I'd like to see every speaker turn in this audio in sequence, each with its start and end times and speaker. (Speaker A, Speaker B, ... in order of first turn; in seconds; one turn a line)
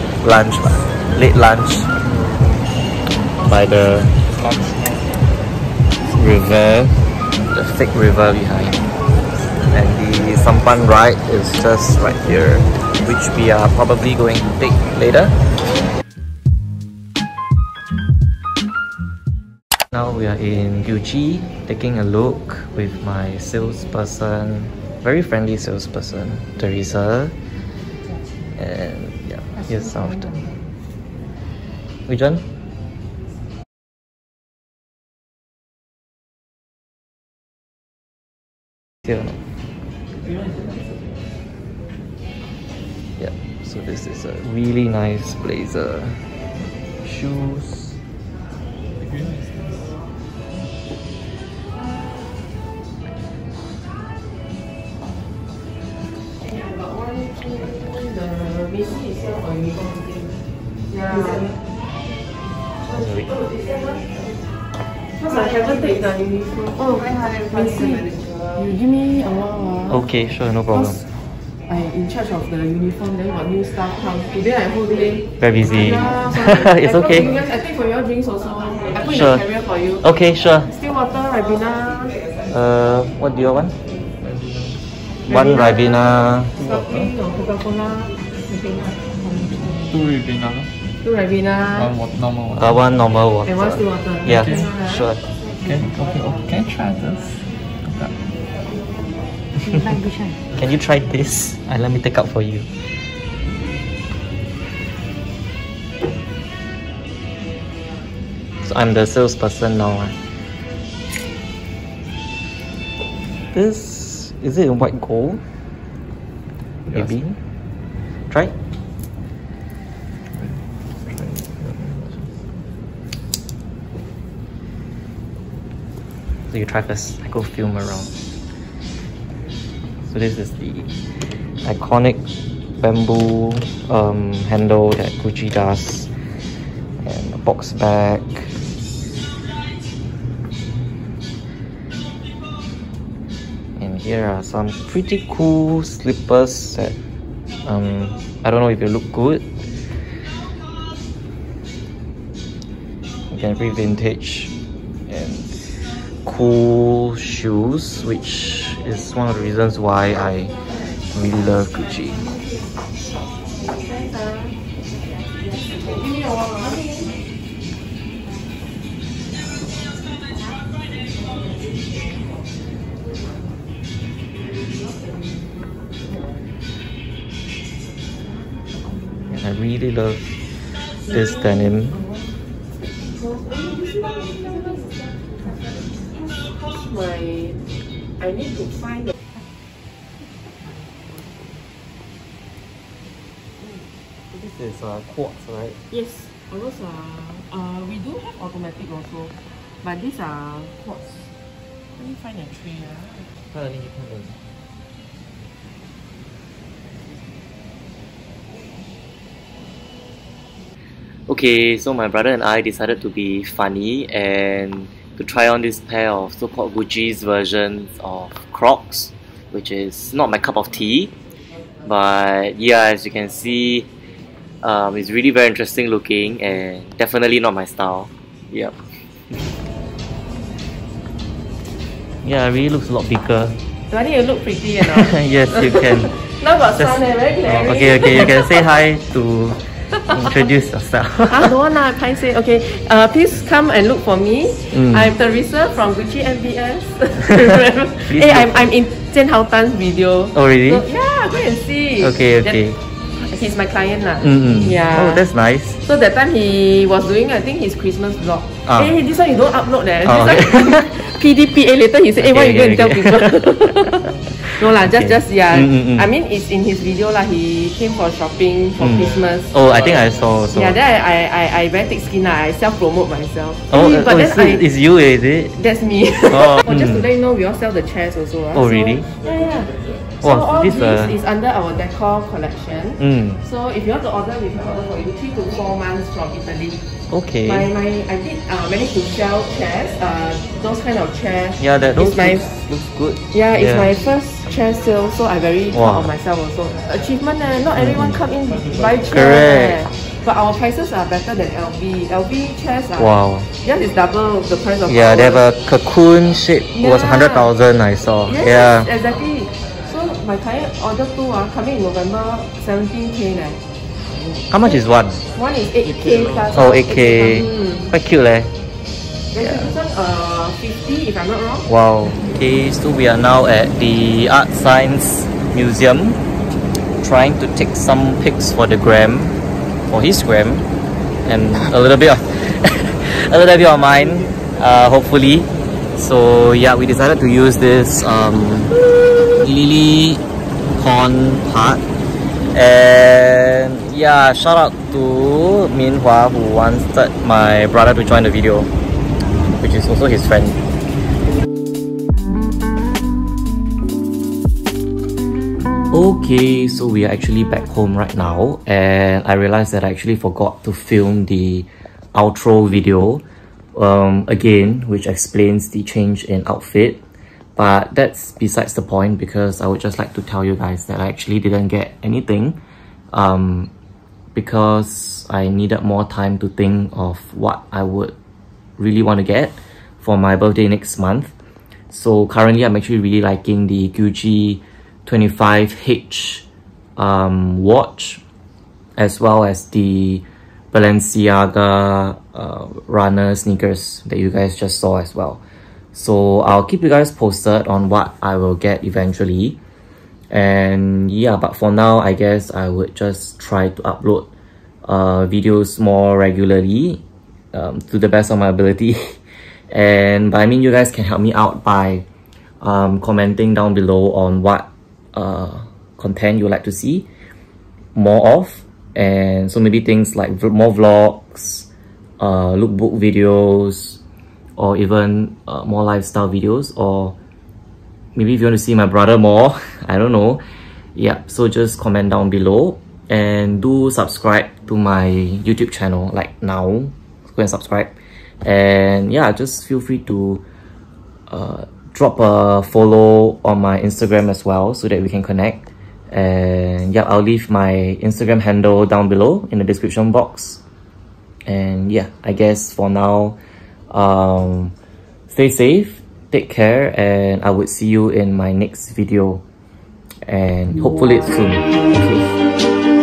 Speaker A: 0.2-1.9
Speaker A: 3.4-4.2
Speaker B: 4.3-5.0
Speaker A: 6.1-8.9
Speaker A: 9.7-15.4
Speaker A: 19.9-27.4
Speaker A: 28.6-30.5
Speaker A: 32.1-32.5
Speaker A: 43.2-46.2
Speaker A: 47.0-48.0
Speaker B: 49.0-49.9
Speaker C: 56.4-60.4
Speaker C: 60.9-61.5
Speaker A: 62.8-63.4
Speaker C: 65.2-70.0
Speaker A: 69.9-71.0
Speaker C: 71.7-80.0
Speaker A: 75.4-77.4
Speaker A: 79.0-79.4
Speaker A: 80.0-80.7
Speaker C: 80.7-82.2
Speaker A: 82.5-83.8
Speaker B: 84.2-84.8
Speaker A: 85.3-86.8
Speaker C: 85.3-86.0
Speaker C: 86.6-88.1
Speaker B: 89.5-90.7
Speaker C: 91.0-91.9
Speaker B: 91.7-92.8
Speaker A: 92.5-95.3
Speaker C: 93.5-95.1
Speaker B: 94.3-94.6
Speaker B: 95.6-98.2
Speaker A: 100.5-102.7
Speaker A: 108.6-110.2
Speaker A: 113.5-115.4
Speaker A: 116.9-117.4
Speaker A: 118.3-118.5
Speaker A: 121.1-122.1
Speaker A: 126.5-128.2
Speaker A: 130.0-130.9
Speaker A: 131.6-132.2
Speaker A: 132.8-136.1
Speaker A: 137.0-138.6
Speaker A: 143.8-147.0
Speaker A: 147.6-149.4
Speaker A: 153.3-154.5
Speaker A: 155.1-160.6
Speaker A: 161.1-162.2
Speaker C: 163.7-164.5
Speaker C: 165.7-166.9
Speaker A: 179.3-180.4
Speaker A: 181.0-182.0
Speaker C: 183.1-185.0
Speaker C: 186.0-187.6
Speaker C: 188.2-189.1
Speaker A: 194.3-195.8
Speaker C: 195.9-201.3
Speaker C: 202.0-203.3
Speaker A: 203.4-204.4
Speaker A: 211.3-221.1
Speaker A: 221.8-223.9
Speaker A: 224.6-228.8
Speaker A: 232.2-233.6
Speaker C: 233.9-238.5
Speaker A: 234.8-241.6
Speaker C: 241.3-252.6
Speaker A: 244.7-245.1
Speaker A: 248.1-248.8
Speaker A: 250.3-250.8
Speaker A: 252.0-252.8
Speaker C: 253.1-255.2
Speaker A: 254.2-255.8
Speaker C: 255.8-269.6
Speaker A: 258.6-258.9
Speaker A: 260.0-261.1
Speaker A: 262.2-266.1
Speaker A: 268.8-270.8
Speaker C: 270.5-274.6
Speaker A: 273.7-275.6
Speaker C: 275.6-286.8
Speaker A: 276.2-277.1
Speaker A: 278.5-279.1
Speaker A: 280.2-281.1
Speaker A: 283.0-283.4
Speaker A: 287.1-287.7
Speaker C: 287.5-292.5
Speaker A: 291.6-293.9
Speaker C: 293.3-305.4
Speaker A: 295.7-296.1
Speaker A: 297.8-298.1
Speaker B: 298.5-299.0
Speaker A: 299.1-299.9
Speaker A: 302.9-303.5
Speaker A: 304.8-308.9
Speaker C: 306.7-307.5
Speaker C: 308.2-313.6
Speaker A: 314.5-315.2
Speaker C: 315.3-317.9
Speaker A: 316.5-318.5
Speaker C: 319.3-321.7
Speaker A: 319.4-319.7
Speaker A: 321.6-326.2
Speaker A: 327.0-329.4
Speaker A: 329.9-330.7
Speaker A: 331.2-340.2
Speaker A: 340.7-341.8
Speaker A: 342.5-348.7
Speaker A: 349.6-350.7
Speaker A: 355.9-363.2
Speaker A: 363.7-367.0
Speaker A: 367.6-372.6
Speaker A: 373.1-373.7
Speaker A: 374.3-378.1
Speaker A: 378.8-381.3
Speaker A: 381.9-386.4
Speaker A: 387.0-388.2
Speaker A: 389.0-395.4
Speaker A: 395.9-399.6
Speaker A: 400.3-404.3
Speaker A: 404.8-407.0
Speaker A: 407.5-409.2
Speaker A: 409.7-412.0
Speaker A: 412.6-417.1
Speaker A: 417.9-421.7
Speaker A: 422.2-424.0
Speaker A: 424.6-427.1
Speaker A: 428.1-430.4
Speaker A: 430.9-437.9
Speaker A: 438.4-440.4
Speaker A: 441.3-445.6
Speaker A: 446.1-450.6
Speaker A: 451.5-453.4
Speaker A: 453.9-454.7
Speaker A: 455.3-459.4
Speaker A: 460.2-462.4